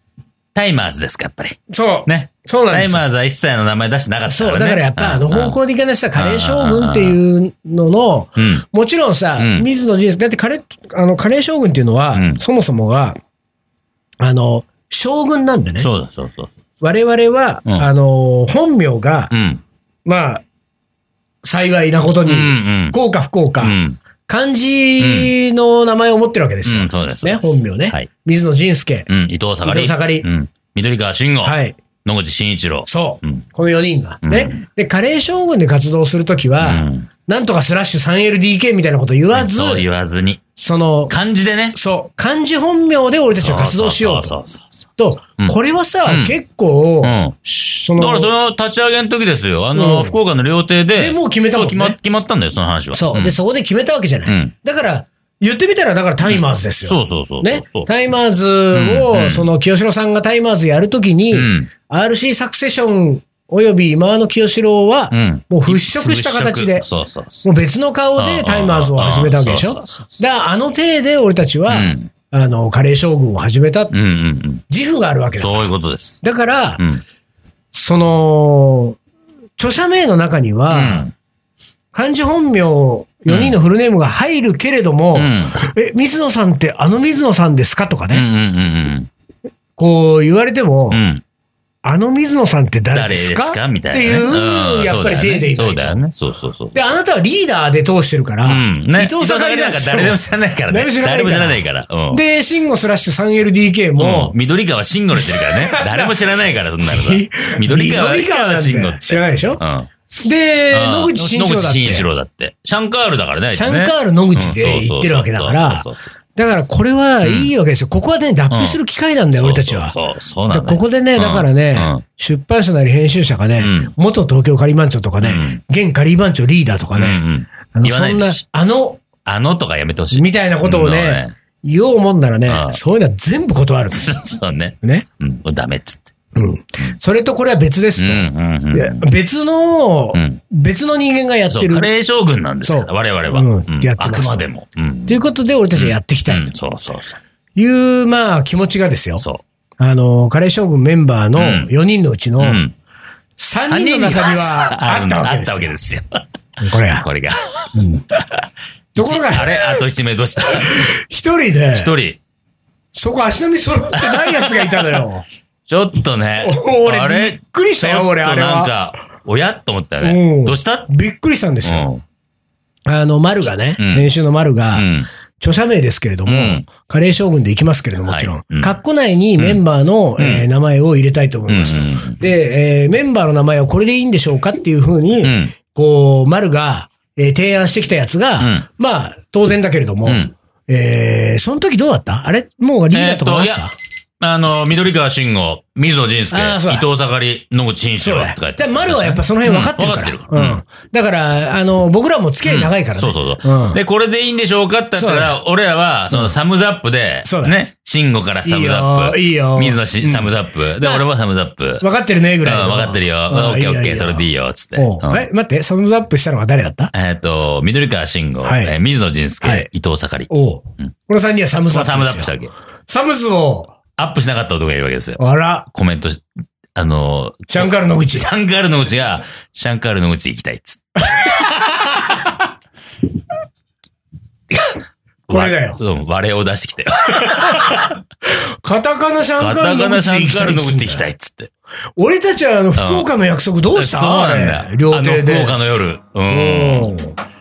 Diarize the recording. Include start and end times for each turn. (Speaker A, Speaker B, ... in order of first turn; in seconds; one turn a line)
Speaker A: 0.5-5.6
Speaker B: 1.7-3.0
Speaker B: 4.3-13.2
Speaker A: 6.2-7.2
Speaker A: 8.4-8.6
Speaker A: 9.4-9.7
Speaker A: 12.1-12.4
Speaker B: 14.2-15.9
Speaker A: 15.8-16.5
Speaker B: 16.8-19.3
Speaker A: 19.3-19.6
Speaker B: 20.1-20.4
Speaker B: 21.4-29.1
Speaker A: 22.2-22.9
Speaker A: 23.6-24.0
Speaker A: 25.0-25.3
Speaker A: 26.6-28.1
Speaker A: 29.1-33.4
Speaker B: 29.6-30.3
Speaker B: 31.4-31.8
Speaker B: 32.9-39.9
Speaker A: 34.2-34.6
Speaker A: 36.6-37.1
Speaker A: 39.3-40.4
Speaker B: 40.5-41.1
Speaker A: 41.1-41.8
Speaker B: 41.7-44.4
Speaker A: 43.4-44.9
Speaker B: 45.0-48.3
Speaker A: 45.4-46.3
Speaker A: 47.0-53.4
Speaker B: 49.7-50.2
Speaker B: 51.0-52.0
Speaker B: 52.9-66.9
Speaker A: 54.2-54.5
Speaker A: 56.2-57.9
Speaker A: 58.7-59.5
Speaker A: 61.3-61.7
Speaker A: 65.1-67.4
Speaker B: 67.4-73.9
Speaker A: 68.2-70.2
Speaker A: 71.7-72.1
Speaker A: 73.9-74.6
Speaker B: 74.7-75.7
Speaker A: 75.4-76.2
Speaker B: 76.2-76.8
Speaker B: 77.7-79.0
Speaker B: 79.6-81.1
Speaker A: 80.7-81.1
Speaker B: 81.9-88.2
Speaker A: 83.3-83.6
Speaker A: 85.1-85.5
Speaker A: 88.1-89.1
Speaker B: 89.8-91.0
Speaker A: 90.9-91.2
Speaker B: 91.8-96.0
Speaker A: 92.9-96.9
Speaker B: 96.7-104.3
Speaker A: 98.4-102.2
Speaker A: 104.0-109.9
Speaker B: 105.1-106.2
Speaker B: 106.8-109.6
Speaker B: 110.2-112.0
Speaker A: 110.7-116.1
Speaker B: 113.5-119.9
Speaker A: 117.2-117.5
Speaker A: 118.5-118.8
Speaker A: 119.3-122.0
Speaker B: 120.5-127.2
Speaker A: 123.6-123.9
Speaker A: 125.2-125.6
Speaker A: 127.0-128.4
Speaker B: 127.7-129.0
Speaker A: 129.2-131.3
Speaker B: 130.1-134.2
Speaker A: 132.5-132.8
Speaker A: 133.9-136.1
Speaker B: 136.3-141.9
Speaker A: 138.0-139.1
Speaker A: 140.1-140.4
Speaker A: 141.5-145.2
Speaker B: 142.6-144.5
Speaker B: 145.1-146.5
Speaker A: 145.7-147.2
Speaker B: 147.6-149.2
Speaker B: 149.8-152.6
Speaker A: 151.3-151.7
Speaker A: 152.4-152.7
Speaker B: 153.4-155.7
Speaker A: 153.7-156.2
Speaker B: 156.6-157.1
Speaker A: 156.9-157.7
Speaker B: 157.7-158.0
Speaker B: 158.9-159.8
Speaker A: 159.0-160.9
Speaker B: 160.4-161.9
Speaker A: 161.7-162.2
Speaker B: 162.9-165.2
Speaker A: 164.0-164.7
Speaker A: 165.7-170.9
Speaker B: 166.4-168.7
Speaker B: 170.0-171.9
Speaker A: 171.6-172.0
Speaker B: 172.8-174.9
Speaker A: 173.8-174.1
Speaker A: 174.7-175.1
Speaker B: 175.4-193.7
Speaker A: 176.2-176.6
Speaker A: 178.1-178.7
Speaker A: 180.2-180.4
Speaker A: 181.5-182.2
Speaker A: 185.2-185.5
Speaker A: 188.4-188.6
Speaker A: 190.1-190.3
Speaker A: 192.9-193.7
Speaker A: 194.2-200.6
Speaker B: 196.3-196.8
Speaker B: 198.0-203.8
Speaker A: 202.4-211.8
Speaker B: 204.9-205.3
Speaker B: 207.2-207.6
Speaker B: 208.4-211.1
Speaker B: 211.8-216.9
Speaker A: 212.4-215.2
Speaker A: 216.9-220.3
Speaker B: 218.4-218.7
Speaker B: 219.4-219.7
Speaker B: 220.3-222.3
Speaker A: 221.7-222.5
Speaker B: 222.9-223.8
Speaker A: 224.0-225.2
Speaker B: 225.2-225.7
Speaker A: 225.7-226.2
Speaker A: 226.7-232.3
Speaker B: 227.5-228.3
Speaker A: 234.5-237.9
Speaker B: 235.3-235.8
Speaker B: 237.3-237.9
Speaker B: 238.6-241.0
Speaker A: 239.4-241.5
Speaker B: 242.0-245.6
Speaker A: 242.8-243.1
Speaker A: 243.7-246.9
Speaker B: 246.3-247.2